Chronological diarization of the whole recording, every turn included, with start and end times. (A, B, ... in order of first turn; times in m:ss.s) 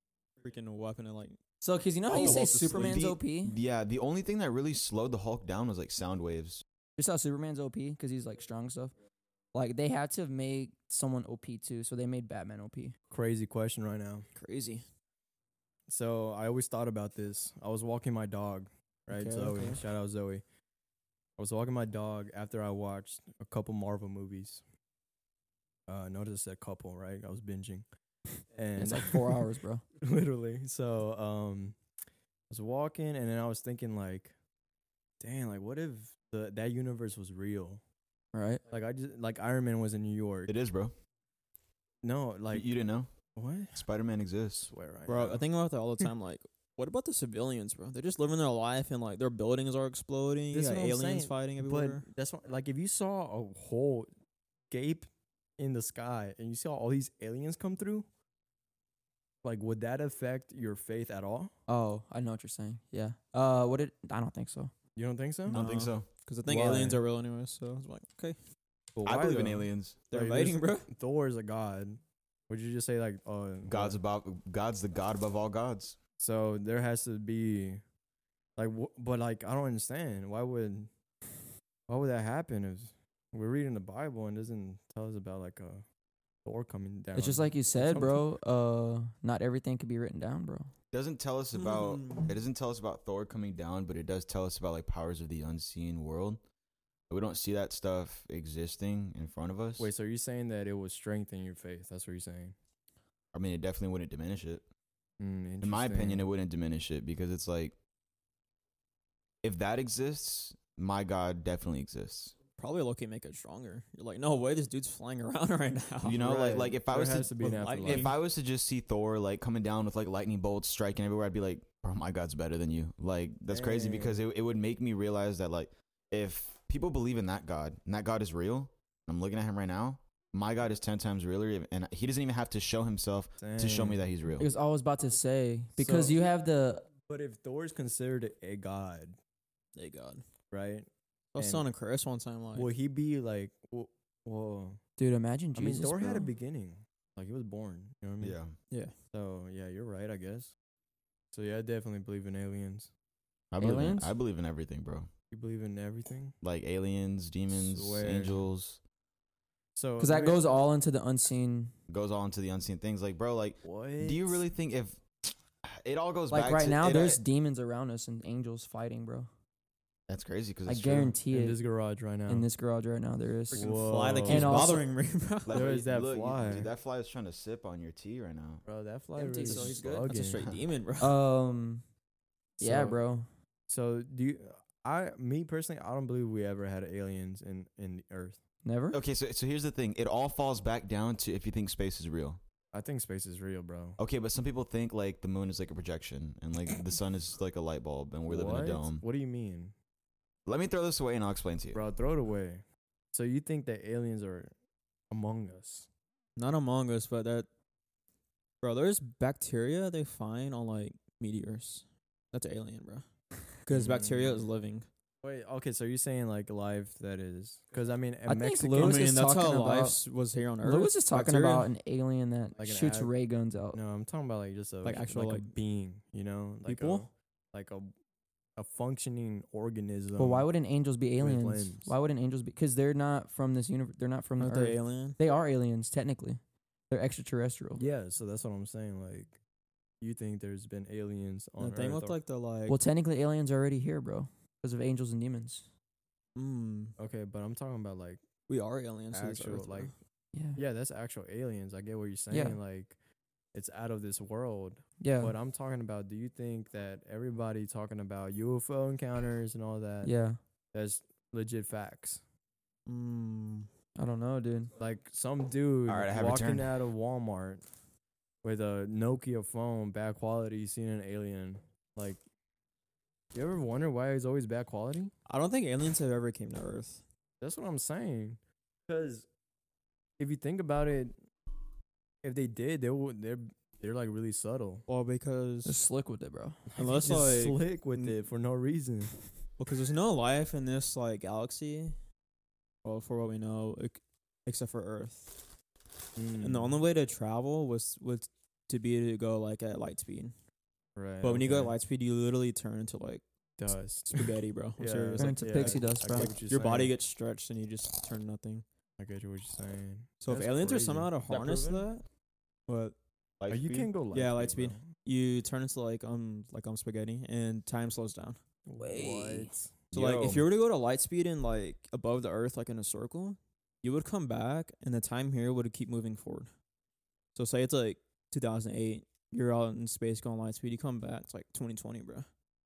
0:00.4-0:01.4 A
0:01.6-0:03.6 B
0:02.1-0:06.6 C
0:02.2-0:02.5 A
0:07.0-0:08.9 B
0:09.5-0:13.0 B
0:13.1-0:14.3 D
0:14.4-0:14.8 A
0:15.9-0:20.4 D
0:19.1-0:19.8 A
0:21.4-0:24.6 D
0:25.9-0:27.9 D
0:28.5-0:29.4 D
0:28.8-0:29.8 B
0:30.0-0:31.8 D
0:32.5-0:34.4 D
0:35.2-0:37.8 D
0:38.3-0:38.6 B
0:38.7-0:40.5 D
0:40.5-0:40.9 C
0:42.0-0:42.7 D
0:42.5-0:43.1 C
0:43.4-0:43.9 D
0:43.7-0:44.7 C
0:44.7-0:45.4 D
0:45.1-0:52.1 A
0:50.5-0:54.1 D
0:54.7-0:58.1 D
0:59.4-1:01.6 D
1:01.7-1:04.7 B
1:05.0-1:05.6 D
1:05.5-1:08.4 A
1:05.5-1:06.1 C
1:06.5-1:07.0 D
1:09.0-1:14.0 D
1:09.0-1:10.0 C
1:10.1-1:10.9 A
1:13.6-1:16.0 C
1:16.2-1:17.8 D
1:18.6-1:20.9 D
1:21.9-1:25.8 D
1:26.4-1:28.3 D
1:27.2-1:30.7 B
1:30.9-1:36.4 C
1:31.5-1:32.3 A
1:37.1-1:39.9 C
1:39.8-1:42.6 D
1:43.3-1:44.6 C
1:45.2-1:46.3 D
1:45.6-1:47.8 C
1:49.4-1:52.4 C
1:52.6-1:56.2 A
1:56.0-2:14.5 C
1:56.2-1:58.1 D
1:57.4-1:58.2 A
2:03.5-2:04.2 D
2:13.4-2:14.0 D
2:14.4-2:16.9 B
2:15.8-2:16.2 D
2:17.0-2:19.2 D
2:19.8-2:20.2 A
2:20.5-2:21.7 D
2:21.3-2:22.7 A
2:22.5-2:24.8 D
2:25.0-2:26.3 B
2:25.6-2:28.4 D
2:28.2-2:28.6 C
2:29.1-2:30.5 D
2:31.3-2:32.9 D
2:33.5-2:35.1 C
2:33.6-2:34.1 B
2:35.3-2:36.4 D
2:36.4-2:38.8 C
2:37.5-2:38.4 D
2:39.8-2:40.4 D
2:40.0-2:41.7 B
2:41.9-2:47.2 C
2:43.6-2:44.4 D
2:46.3-2:49.3 B
2:50.1-2:51.2 C
2:50.7-2:51.6 B
2:51.3-2:52.5 D
2:52.3-2:53.6 B
2:53.5-2:54.7 D
2:53.5-2:55.7 A
2:54.3-2:54.9 B
2:55.4-2:58.6 C
2:55.5-2:56.7 D
2:58.6-3:00.4 D
2:59.1-3:00.1 B
2:59.5-3:01.2 A
3:00.4-3:00.6 C
3:01.0-3:01.8 B
3:02.6-3:03.0 D
3:02.6-3:03.3 B
3:03.7-3:08.4 D
3:08.6-3:09.0 B
3:08.9-3:12.4 C
3:12.7-3:14.0 D
3:14.0-3:19.0 C
3:18.3-3:19.7 D
3:20.5-3:21.8 C
3:21.7-3:24.5 D
3:25.1-3:25.9 D
3:26.4-3:27.5 A
3:28.6-3:33.1 A
3:33.6-3:34.9 A
3:33.7-3:34.4 D
3:35.2-3:39.0 D
3:38.3-3:40.0 B
3:38.8-3:41.7 A
3:40.6-3:43.8 B
3:42.6-3:43.2 D
3:43.7-3:47.9 D
3:44.8-3:45.5 A
3:46.7-3:47.1 A
3:48.6-3:50.5 D
3:50.2-3:57.8 B
3:51.2-3:51.9 D
3:54.4-3:55.2 A
3:57.8-3:59.4 D
4:00.0-4:02.2 D
4:01.6-4:02.8 A
4:02.7-4:05.7 B
4:06.4-4:07.0 A
4:07.0-4:08.2 D
4:08.5-4:09.9 A
4:09.1-4:09.9 D
4:10.3-4:10.6 B
4:10.6-4:13.0 D
4:12.3-4:12.6 B
4:13.5-4:20.1 D
4:15.0-4:15.4 B
4:20.0-4:20.4 B
4:20.7-4:22.2 D
4:22.9-4:23.7 A
4:24.0-4:24.7 B
4:24.8-4:27.6 D
4:25.9-4:26.8 C
4:28.4-4:32.2 D
4:33.3-4:35.1 D
4:35.3-4:37.0 A
4:37.4-4:39.3 D
4:40.2-4:41.2 D
4:42.2-4:44.8 D
4:44.9-4:45.8 A
4:45.6-4:46.6 B
4:46.7-4:49.2 D
4:46.8-4:48.2 A
4:49.6-4:52.0 A
4:52.8-4:55.5 A
4:56.2-4:56.8 D
4:56.4-5:00.4 A
5:01.0-5:01.8 D
5:01.2-5:03.2 A
5:03.6-5:04.2 D
5:04.1-5:08.6 A
5:04.8-5:07.0 D
5:05.2-5:06.3 B
5:09.0-5:11.8 D
5:10.2-5:12.0 A
5:12.7-5:13.0 A
5:13.4-5:14.0 C
5:13.5-5:14.9 D
5:14.1-5:18.4 A
5:18.7-5:19.7 D
5:18.8-5:19.5 B
5:19.9-5:20.4 C
5:19.9-5:26.5 A
5:27.4-5:32.3 A